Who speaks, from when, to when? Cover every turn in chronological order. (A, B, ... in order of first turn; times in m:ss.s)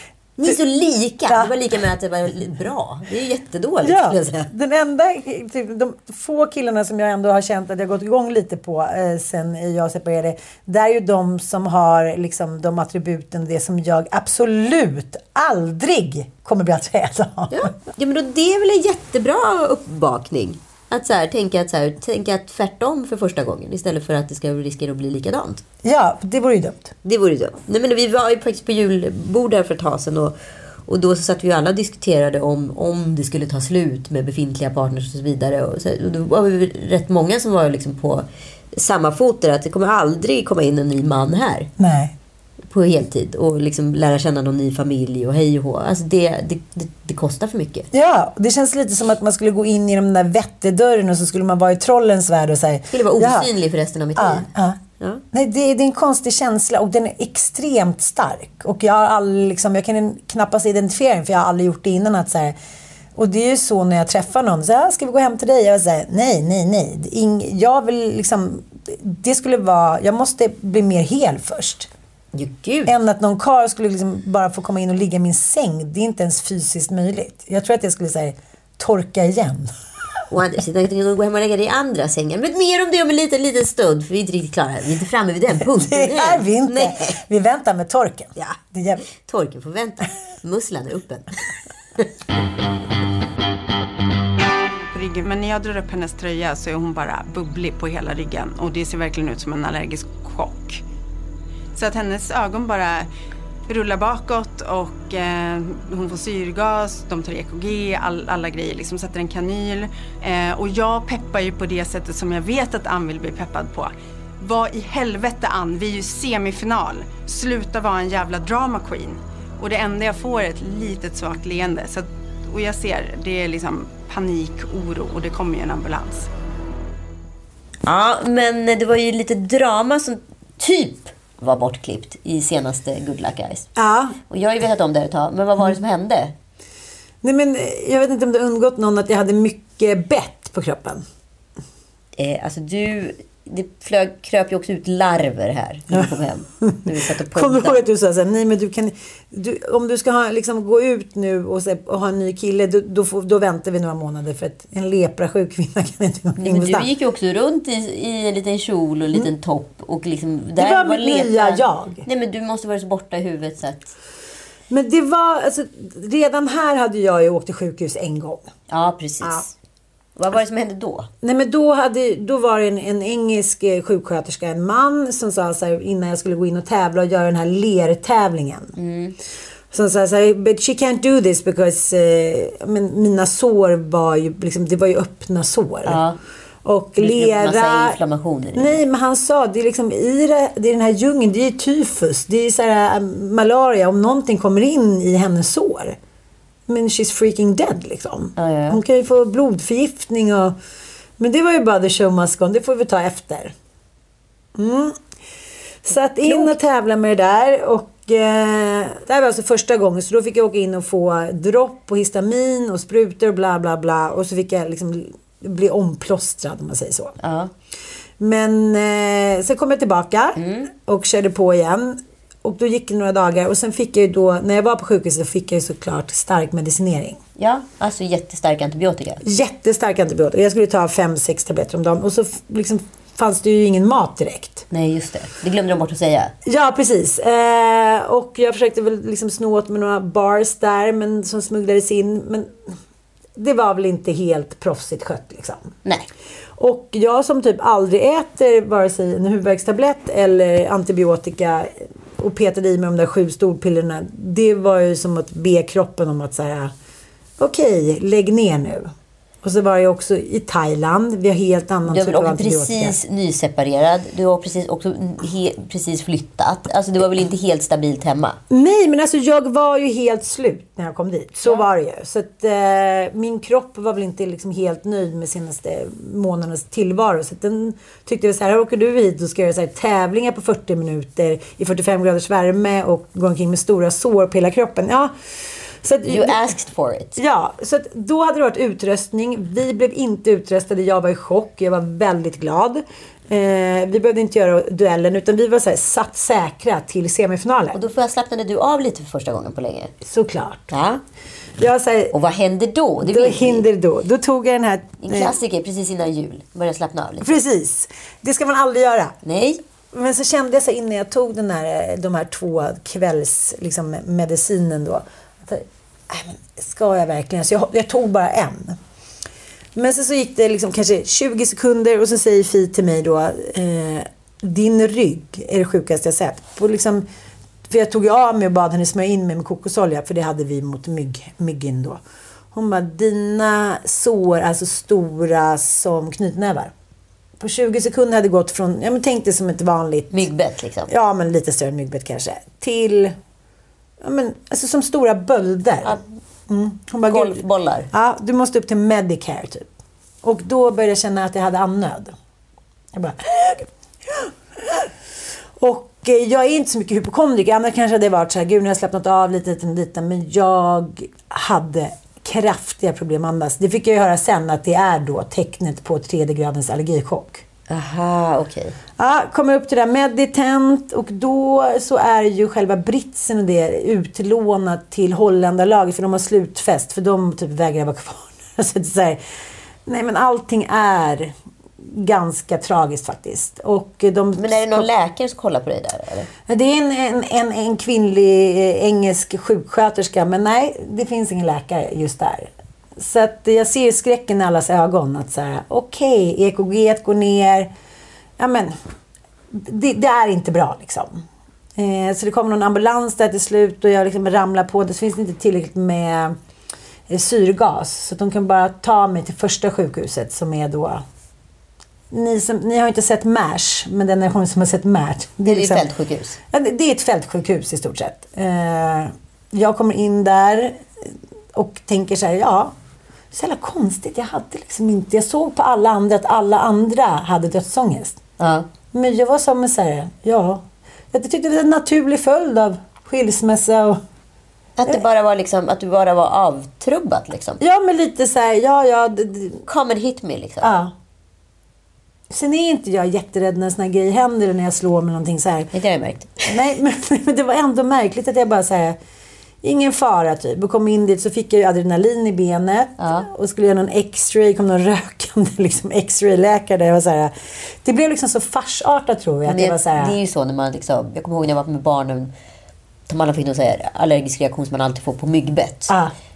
0:00.4-0:04.5 A
0:01.3-0:01.5 B
0:03.8-0:17.7 B
0:17.5-0:25.6 A
0:25.8-0:26.9 B
0:27.0-0:41.7 A
0:41.8-0:42.2 B
0:42.7-0:47.9 A
0:47.9-0:53.5 B
0:52.9-0:54.5 A
0:54.2-0:54.8 B
0:55.3-1:02.6 B
1:03.2-1:11.9 B
1:12.3-1:12.9 A
1:12.9-1:19.7 B
1:20.3-1:27.2 A
1:25.7-1:29.1 B
1:29.1-1:31.3 A
1:34.9-1:40.8 C
1:41.7-1:43.1 C
1:43.7-2:06.3 C
2:07.8-2:13.7 A
2:13.8-2:14.2 B
2:14.3-2:16.3 A
2:17.2-2:21.0 B
2:22.2-2:27.8 A
2:26.6-2:36.9 B
2:36.4-2:43.9 A
2:40.6-2:42.0 B
2:44.7-2:48.5 B
2:48.7-2:49.5 A
2:50.2-2:51.1 A
2:51.2-2:58.7 B
2:58.8-2:59.2 A
2:59.7-3:06.0 B
3:05.8-3:06.2 A
3:06.6-3:08.0 B
3:07.0-3:08.8 A
3:08.6-3:16.0 B
3:16.7-3:20.6 B
3:18.4-3:18.8 A
3:21.2-3:23.5 B
3:24.6-3:25.0 B
3:25.8-3:37.2 B
3:26.2-3:26.6 A
3:37.2-3:37.5 A
3:38.2-3:47.2 B
3:40.4-3:40.7 A
3:47.4-3:49.2 A
3:49.2-3:54.7 B
3:54.7-3:56.3 A
3:56.4-4:02.6 B
4:03.4-4:05.8 B
4:06.6-4:16.7 B
4:17.4-4:23.0 B
4:21.9-4:28.4 A
4:28.5-4:45.1 B
4:45.8-4:46.5 B
4:46.1-4:47.2 A
4:47.2-4:57.8 B
4:57.7-4:59.9 A
5:00.0-5:00.7 B
5:00.7-5:01.0 A
5:01.6-5:02.1 B
5:02.1-5:03.6 A
5:03.0-5:05.4 B
5:05.0-5:07.3 A
5:07.2-5:09.2 B
5:09.2-5:09.6 A
5:09.9-5:18.8 B
5:19.8-5:27.1 B
5:27.7-5:32.0 B
5:32.5-5:36.7 B
5:37.4-5:40.3 B
5:40.1-5:40.9 A
5:40.9-5:43.2 B
5:44.0-5:49.7 B
5:47.1-5:47.9 A
5:50.2-5:52.2 B
5:52.9-5:54.9 B
5:55.6-6:07.4 B
6:07.7-6:08.8 A
6:09.0-6:19.2 B
6:19.9-6:24.9 B
6:24.4-6:26.3 A
6:26.5-6:37.7 B
6:38.4-6:38.8 B
6:39.5-6:46.4 B
6:47.1-6:51.0 B
6:52.1-6:55.9 B
6:55.4-6:56.4 A
6:56.5-7:00.8 B
7:01.5-7:02.7 B
7:03.3-7:08.2 B
7:08.4-7:08.7 A
7:08.9-7:14.0 B
7:14.8-7:17.6 A
7:17.6-7:19.6 B
7:19.7-7:20.7 A
7:20.6-7:20.9 B
7:22.3-7:25.7 B
7:25.7-7:26.6 A
7:26.5-7:29.0 B
7:29.6-7:40.2 B
7:33.0-7:33.3 A
7:39.5-7:42.3 A
7:43.1-7:45.9 A